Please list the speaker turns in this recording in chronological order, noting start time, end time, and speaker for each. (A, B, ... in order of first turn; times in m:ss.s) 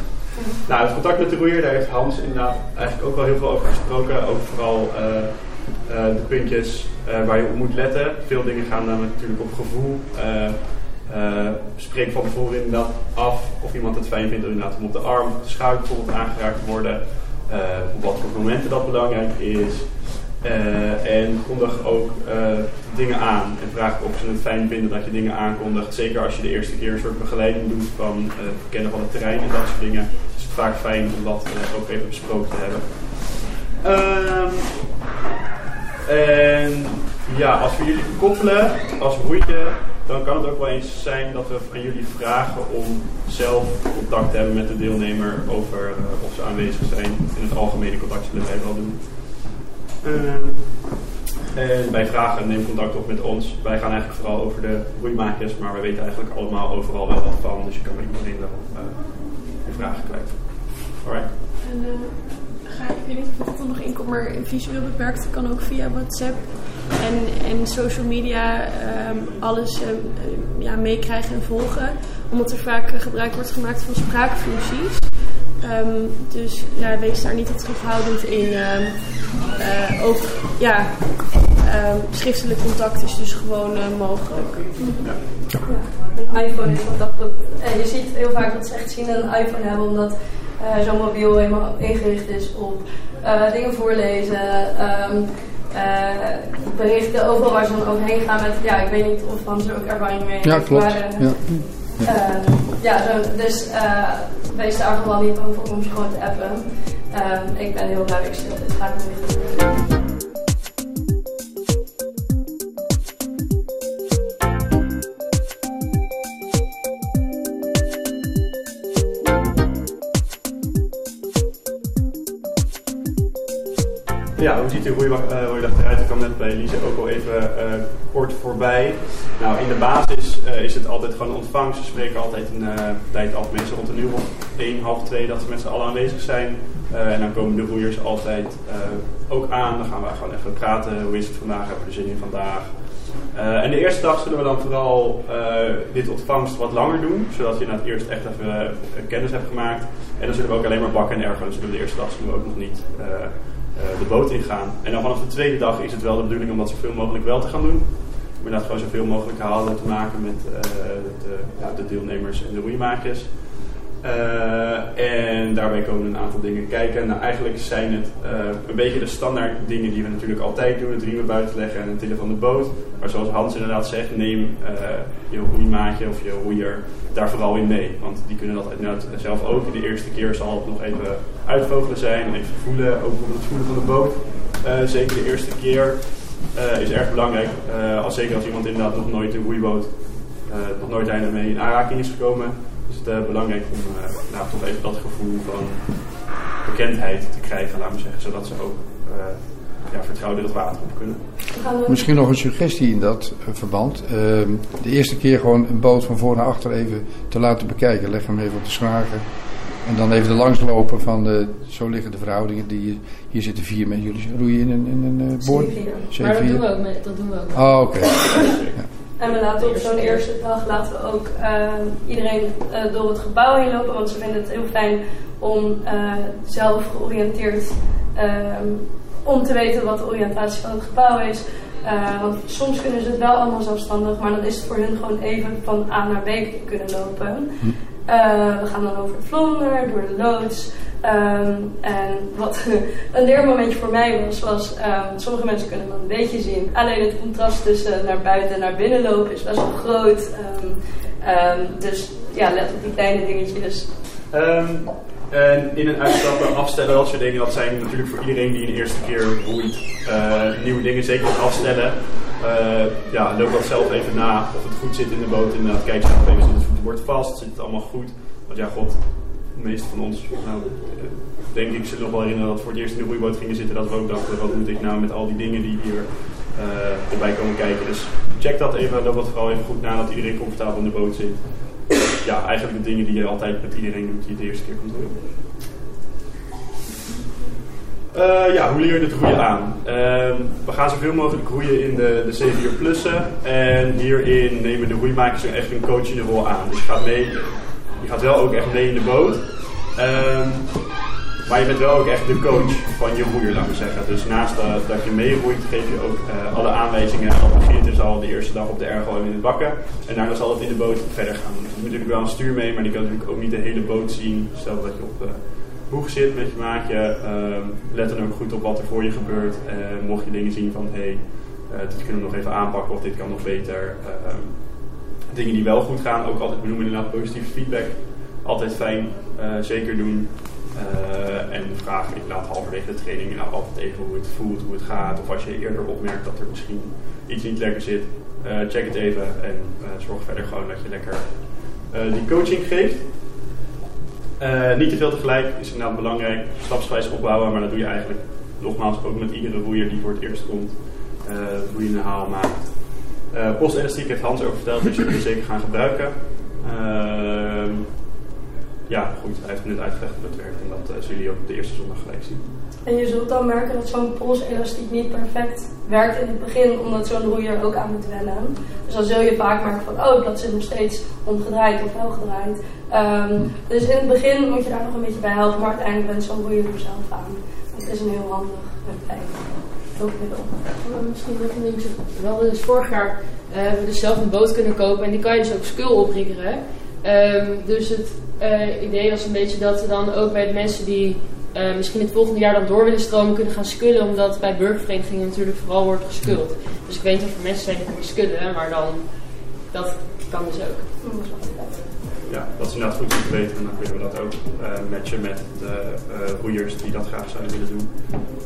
0:00.6-0:34.9 A
0:36.0-0:51.0 A
0:51.5-1:01.3 A
0:59.8-1:00.1 B
1:01.6-1:25.2 B
1:25.6-1:49.8 C
1:40.4-1:42.1 D
2:04.4-3:21.2 A
3:21.5-3:22.1 C
3:21.9-3:29.2 D
3:29.8-3:36.6 D
3:35.4-3:36.1 C
3:36.2-3:38.5 E
3:37.5-3:38.8 D
3:38.2-3:38.7 A
3:39.2-4:13.9 C
3:39.3-3:40.2 E
4:14.3-4:45.3 A
4:48.1-5:43.1 A
5:44.4-5:57.9 A
5:58.9-6:02.4 A
6:02.8-6:19.6 C
6:20.0-6:40.9 E
6:41.0-6:41.8 C
6:42.3-6:47.9 A